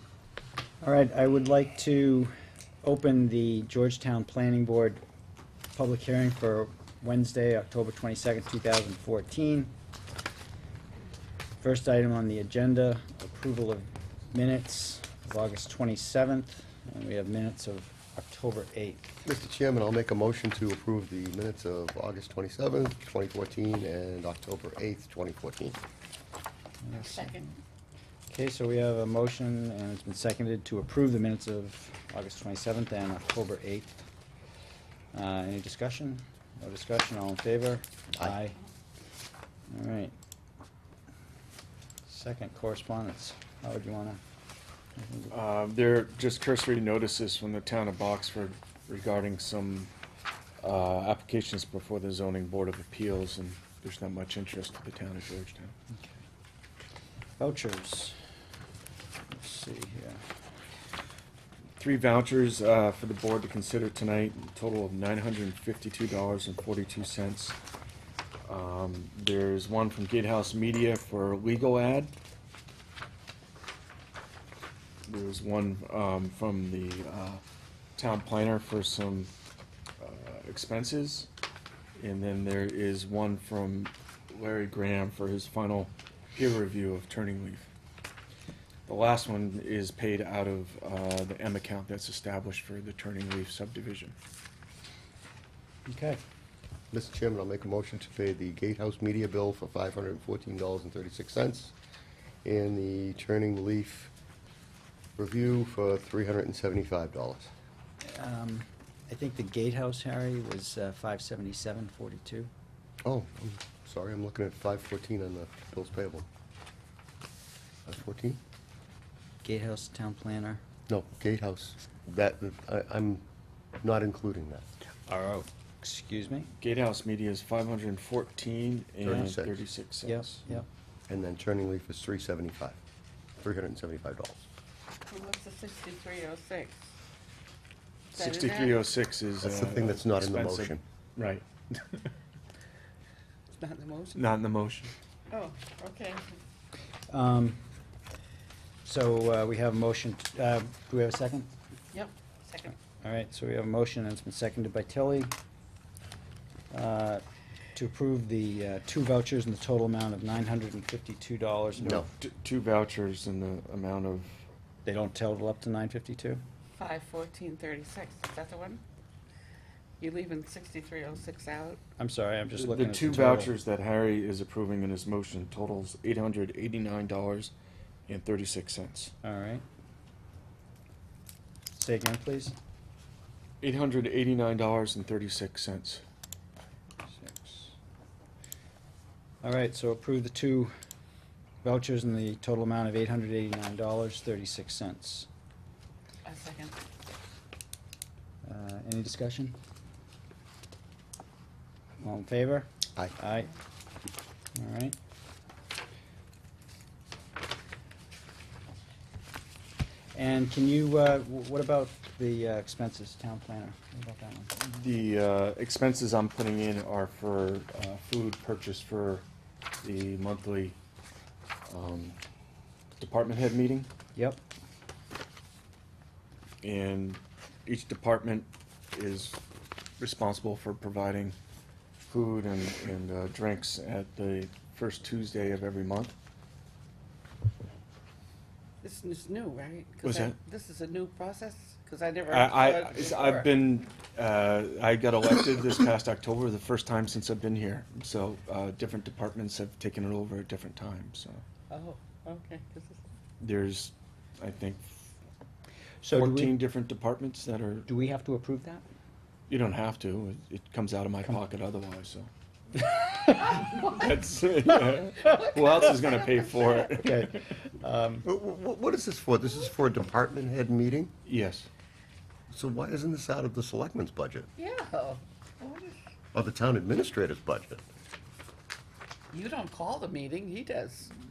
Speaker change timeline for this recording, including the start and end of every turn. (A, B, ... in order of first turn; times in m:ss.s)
0:00.8-0:05.0 A
0:05.8-0:09.7 A
0:11.6-0:19.3 A
0:19.3-0:25.8 B
0:26.8-0:27.4 A
0:27.0-0:27.5 C
0:28.3-0:34.0 A
0:35.1-0:38.6 A
0:39.7-0:40.1 A
0:42.1-0:44.2 A
0:45.0-0:45.3 A
0:45.3-0:49.9 D
0:50.6-0:55.7 D
0:55.9-0:56.2 A
0:57.4-0:58.2 A
0:59.3-1:00.2 A
1:01.8-1:07.6 D
1:08.4-1:12.1 D
1:15.1-1:17.4 D
1:18.0-1:19.3 D
1:20.0-1:21.3 D
1:22.0-1:27.7 D
1:28.9-1:34.2 D
1:35.9-1:36.2 A
1:36.9-1:41.7 B
1:42.4-1:44.1 B
1:45.2-1:47.5 B
1:48.0-1:52.5 A
1:53.0-1:56.3 B
1:57.9-1:58.4 B
1:59.4-2:00.6 A
2:00.9-2:03.2 B
2:03.8-2:04.7 B
2:05.1-2:06.5 A
2:06.6-2:10.4 D
2:09.0-2:09.6 B
2:10.0-2:10.7 A
2:10.5-2:12.8 B
2:13.4-2:14.4 B
2:15.1-2:16.8 C
2:18.1-2:22.1 D
2:18.2-2:18.8 C
2:19.4-2:20.8 B
2:23.6-2:24.2 C
2:24.1-2:24.9 D
2:25.3-2:26.3 C
2:27.1-2:27.6 A
2:28.8-2:31.5 A
2:31.9-2:32.7 C
2:32.9-2:35.3 A
2:36.7-2:37.2 A
2:37.8-2:42.1 A
2:41.8-2:42.1 B
2:42.1-2:44.4 D
2:44.8-2:46.4 A
2:46.8-2:48.8 C
2:50.0-2:51.8 C
2:52.0-2:53.5 A
2:52.6-2:57.5 D
2:58.1-2:59.1 D
2:59.2-2:59.6 A
3:01.7-3:02.6 A
3:03.6-3:06.0 D
3:07.1-3:07.7 A
3:09.4-3:10.7 A
3:11.6-3:15.3 A
3:16.3-3:16.8 C
3:18.4-3:19.6 A
3:22.0-3:23.5 A
3:24.6-3:25.0 A
3:30.1-3:34.6 A
3:34.6-3:39.2 D
3:39.8-3:40.8 D
3:41.7-3:42.2 D
3:43.0-3:43.9 D
3:44.2-3:44.4 A
3:46.6-3:49.4 D
3:50.0-3:51.4 D
3:52.1-3:56.1 D
3:58.8-4:03.5 C
4:00.0-4:00.4 D
4:02.3-4:11.4 D
4:11.7-4:13.0 C
4:13.4-4:15.0 D
4:16.0-4:16.6 A
4:16.1-4:17.9 D
4:17.9-4:18.8 A
4:19.5-4:22.3 D
4:23.3-4:27.5 D
4:25.2-4:26.8 C
4:26.9-4:28.3 A
4:28.2-4:31.1 B
4:31.2-4:31.7 D
4:32.5-4:34.5 B
4:34.6-4:36.0 C
4:36.3-4:37.8 B
4:39.3-4:41.1 C